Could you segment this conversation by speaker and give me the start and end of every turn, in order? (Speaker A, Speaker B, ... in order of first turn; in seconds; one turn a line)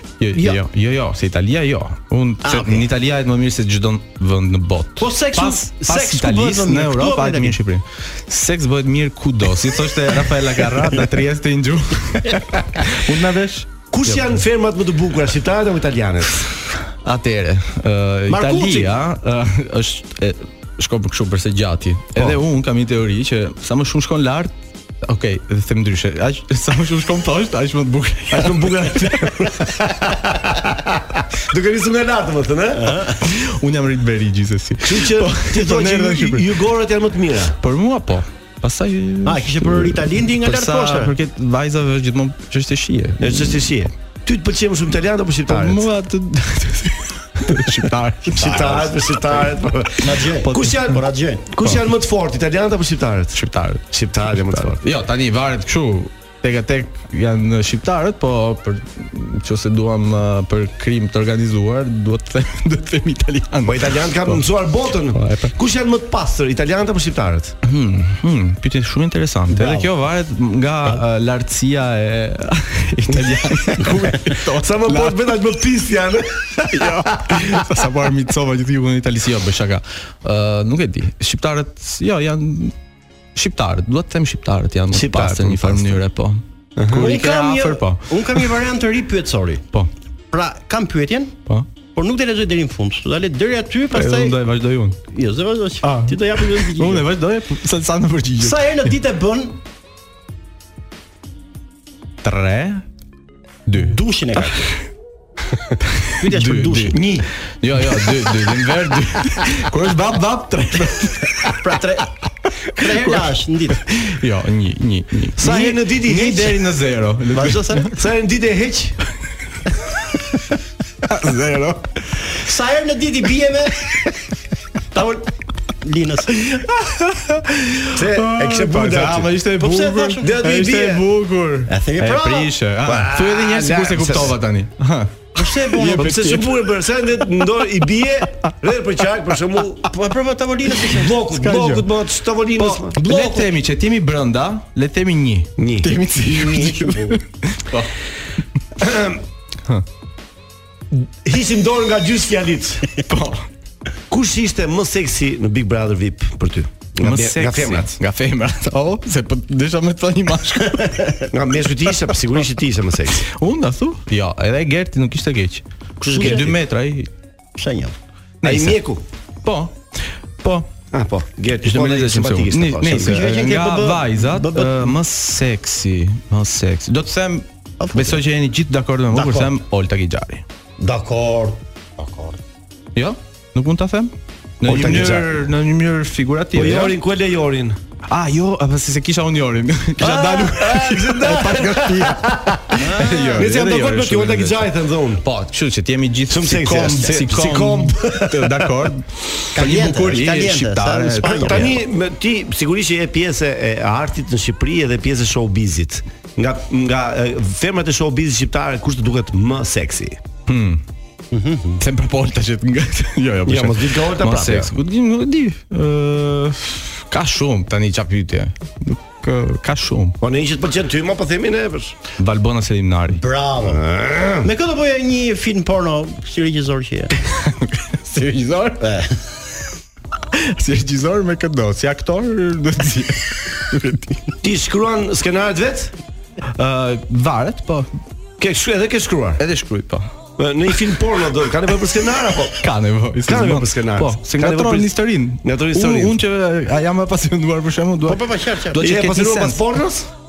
Speaker A: 0.2-14.4
Speaker B: 2.4-2.8
Speaker B: 5.0-7.6
Speaker C: 13.9-16.4
Speaker A: 17.0-29.4
Speaker B: 18.3-18.9
Speaker C: 22.1-22.4
Speaker C: 28.3-33.0
Speaker B: 32.8-33.2
Speaker A: 33.2-36.5
Speaker C: 34.8-37.6
Speaker A: 37.6-43.9
Speaker B: 39.2-41.1
Speaker C: 43.2-45.9
Speaker A: 45.5-49.2
Speaker C: 48.3-54.8
Speaker B: 48.4-48.8
Speaker B: 50.0-51.5
Speaker A: 53.3-64.4
Speaker C: 63.6-67.6
Speaker A: 65.1-65.5
Speaker A: 67.6-75.4
Speaker C: 69.5-69.9
Speaker B: 69.6-69.8
Speaker C: 74.5-77.6
Speaker A: 76.7-82.7
Speaker A: 83.3-88.5
Speaker C: 84.9-86.0
Speaker C: 86.8-87.1
Speaker B: 86.9-89.6
Speaker B: 90.3-91.4
Speaker B: 91.9-94.4
Speaker A: 93.9-95.0
Speaker B: 95.1-97.1
Speaker A: 95.8-98.6
Speaker B: 98.4-99.6
Speaker A: 102.2-102.8
Speaker A: 103.7-104.0
Speaker B: 103.8-104.7
Speaker A: 106.0-107.0
Speaker B: 106.2-107.0
Speaker C: 106.9-107.3
Speaker A: 107.6-111.6
Speaker B: 111.5-112.1
Speaker B: 112.7-113.8
Speaker A: 112.8-113.3
Speaker A: 113.8-117.8
Speaker C: 115.4-116.5
Speaker B: 115.4-116.6
Speaker B: 117.3-117.9
Speaker C: 117.8-119.0
Speaker A: 121.0-121.9
Speaker B: 122.3-124.1
Speaker B: 124.9-125.2
Speaker B: 125.8-126.3
Speaker A: 126.3-136.7
Speaker C: 127.9-129.4
Speaker B: 129.5-130.4
Speaker C: 130.2-131.0
Speaker B: 131.7-132.5
Speaker C: 132.8-134.4
Speaker B: 135.3-136.4
Speaker C: 135.9-139.9
Speaker B: 139.8-141.2
Speaker C: 140.8-143.4
Speaker A: 141.3-141.8
Speaker A: 142.6-147.9
Speaker C: 145.6-146.0
Speaker B: 146.1-147.2
Speaker C: 148.8-149.2
Speaker C: 150.9-152.9
Speaker A: 153.1-153.5
Speaker C: 154.1-157.9
Speaker A: 157.0-160.9
Speaker B: 160.6-161.2
Speaker C: 161.3-163.2
Speaker A: 163.2-167.1
Speaker C: 166.0-166.6
Speaker B: 166.1-166.6
Speaker B: 167.6-167.9
Speaker A: 168.4-168.8
Speaker C: 168.4-169.0
Speaker A: 169.4-170.7
Speaker C: 170.9-173.2
Speaker A: 171.6-180.4
Speaker B: 172.9-174.9
Speaker B: 177.8-178.2
Speaker C: 179.1-179.4
Speaker B: 180.8-182.4
Speaker A: 182.9-187.0
Speaker C: 184.7-185.4
Speaker C: 186.5-187.8
Speaker A: 188.1-194.7
Speaker C: 190.0-192.8
Speaker B: 190.0-190.3
Speaker B: 192.8-193.5
Speaker C: 193.3-195.2
Speaker A: 195.2-201.8
Speaker C: 196.3-198.9
Speaker B: 196.8-197.2
Speaker B: 199.5-201.7
Speaker C: 201.2-210.2
Speaker A: 210.5-210.8
Speaker B: 211.3-211.8
Speaker A: 211.8-220.2
Speaker C: 213.4-214.7
Speaker C: 220.2-221.9
Speaker A: 222.2-223.2
Speaker B: 223.1-223.8
Speaker C: 223.6-224.5
Speaker B: 224.4-227.1
Speaker A: 227.2-228.8
Speaker B: 228.8-229.1
Speaker A: 230.3-234.3
Speaker C: 234.4-235.9
Speaker A: 236.6-237.9
Speaker C: 238.4-239.4
Speaker A: 239.4-240.1
Speaker C: 240.4-242.7
Speaker A: 242.6-249.6
Speaker C: 243.2-246.2
Speaker B: 248.0-248.9
Speaker C: 248.8-250.1